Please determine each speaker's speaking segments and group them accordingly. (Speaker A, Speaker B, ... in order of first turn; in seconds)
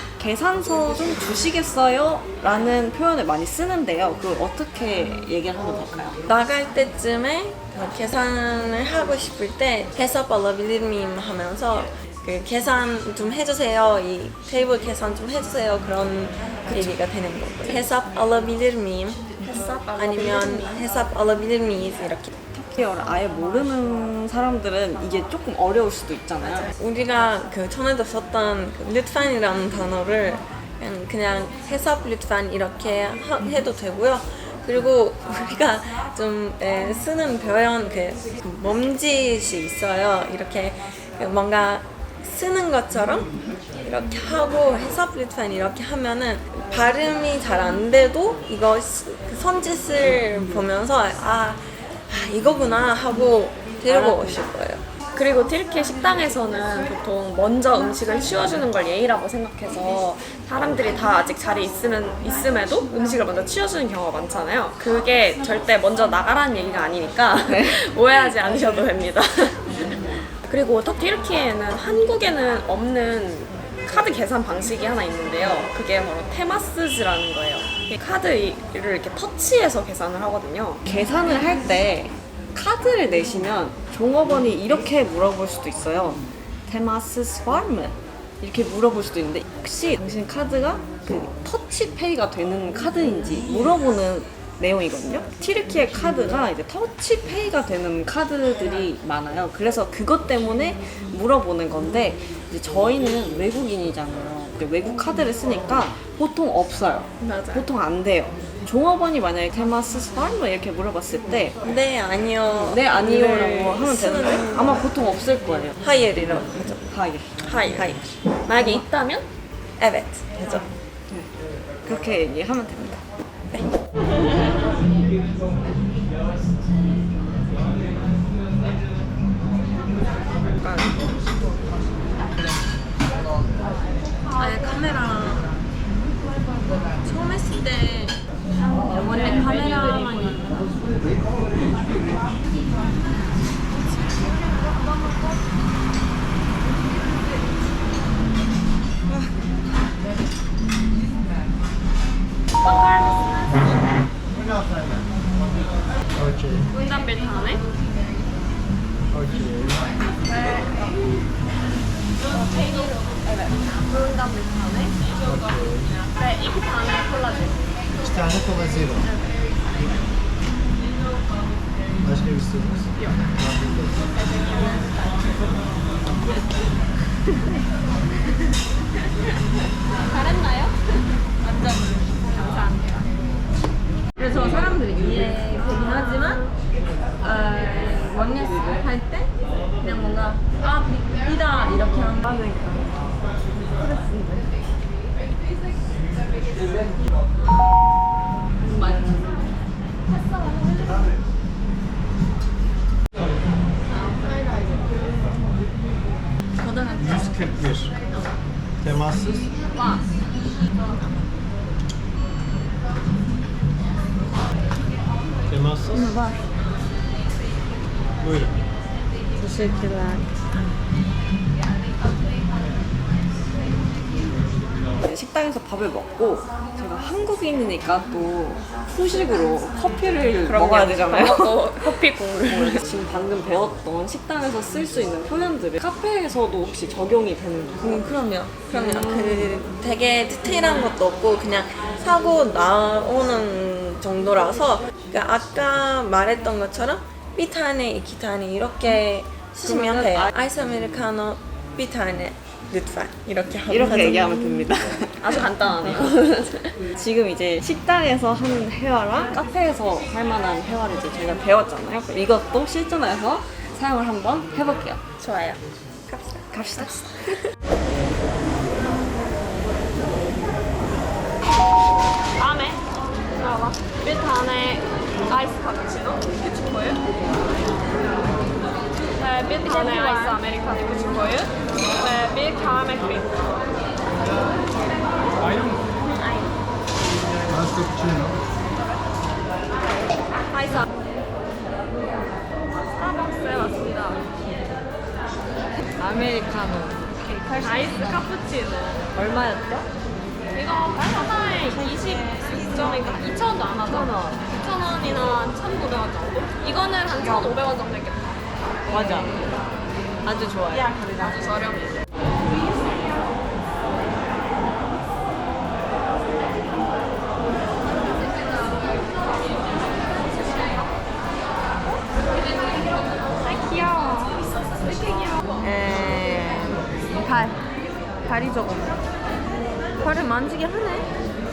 Speaker A: 0.2-6.2, 22.5-26.7, 53.9-54.4, 67.5-67.8, 80.8-111.6, 112.5-115.8, 116.9-117.5, 121.8-123.0, 225.0-238.1, 238.7-239.4, 249.6-250.3, 253.7-256.1, 256.9-265.0, 266.5-267.4, 296.0-297.1, 299.2-299.7, 304.0-304.4, 308.9-309.3, 310.3-310.9
Speaker B: 6.3-19.3, 19.9-22.3, 26.8-54.8, 111.6-114.9, 115.8-116.9, 119.8-120.7, 134.3-135.5, 137.0-138.2, 138.9-140.6, 181.4-182.1, 184.2-186.5, 187.2-192.9, 193.8-194.4, 206.6-207.2, 215.9-216.3, 219.4-220.2, 230.6-231.1, 237.8-254.5, 266.1-267.3, 279.6-280.4, 286.2-286.5, 297.3-298.1, 308.9-309.4, 310.7-311.7, 325.6-327.6, 328.2-329.0, 330.0-331.1
Speaker C: 19.4-20.9, 55.1-80.8, 107.2-107.7, 117.5-119.2, 130.6-131.0, 152.6-153.5, 156.7-157.6, 160.3-160.7, 162.4-164.9, 166.2-167.5, 174.5-175.1, 180.1-180.7, 182.3-183.0, 209.8-210.0, 230.5-232.8, 255.2-256.8, 265.2-265.6, 272.4-272.8, 273.4-277.0, 279.2-283.5, 290.5-290.8, 293.0-294.2, 297.6-299.0, 300.5-308.3, 311.2-311.9, 323.4-324.4, 325.1-325.4
Speaker D: 172.2-172.7, 207.2-207.8, 209.0-209.2, 301.9-303.9